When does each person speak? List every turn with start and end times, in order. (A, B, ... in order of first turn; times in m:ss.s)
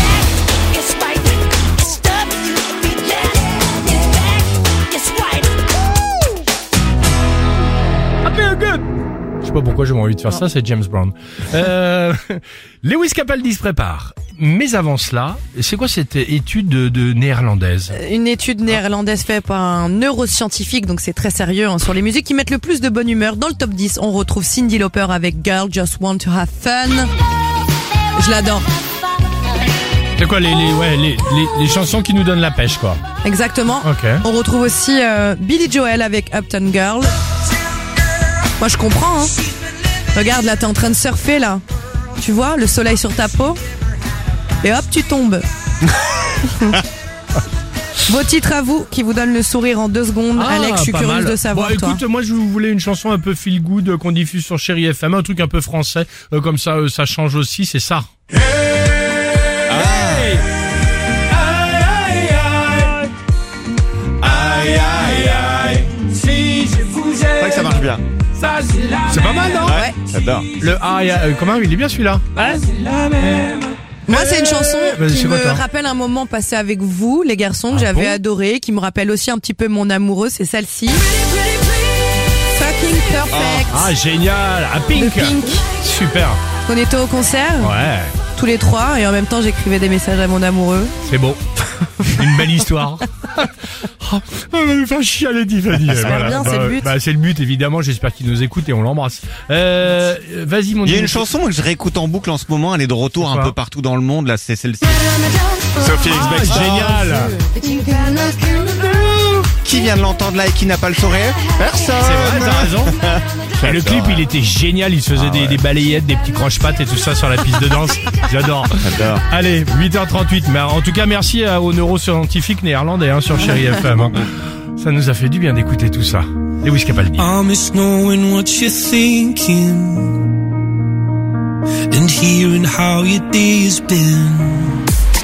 0:00.7-0:04.2 A
0:04.9-0:05.5 A
0:08.2-0:08.8 B
0:09.4-0:18.0 B
0:17.9-0:27.1 C
0:28.2-0:28.7 C
0:30.2-0:33.0 B
0:33.2-0:37.1 C
0:33.8-0:34.2 B
0:38.6-0:39.4 C
0:40.1-0:41.6 C
0:42.2-0:43.6 C
0:44.6-0:45.4 C
0:46.4-0:46.8 C
0:48.0-0:52.0 C
0:50.3-0:58.1 B
0:59.7-1:00.3 D
0:59.7-1:00.4 B
1:01.4-1:03.1 B
1:04.2-1:07.0 B
1:06.8-1:07.5 E
1:07.4-1:08.0 D
1:08.9-1:09.8 B
1:09.6-1:10.5 D
1:09.7-1:10.0 C
1:10.5-1:12.6 B
1:12.5-1:13.5 E
1:14.1-1:21.1 C
1:14.9-1:15.6 B
1:17.7-1:18.2 B
1:22.5-1:23.9 C
1:23.3-1:23.6 D
1:23.7-1:26.4 B
1:24.9-1:25.6 C
1:26.6-1:27.7 C
1:27.6-1:28.1 B
1:28.3-1:30.9 C
1:31.0-1:31.4 B
1:32.0-1:33.5 B
1:34.0-1:41.3 B
1:36.0-1:36.9 C
1:40.8-1:45.1 D
1:43.2-1:43.5 B
1:45.8-1:47.3 D
1:46.0-1:47.4 B
1:48.5-1:54.3 D
1:52.0-1:52.9 B
1:53.6-2:07.3 B
1:55.1-1:55.6 D
1:58.8-1:59.2 D
2:07.2-2:10.2 E
2:11.9-2:14.8 E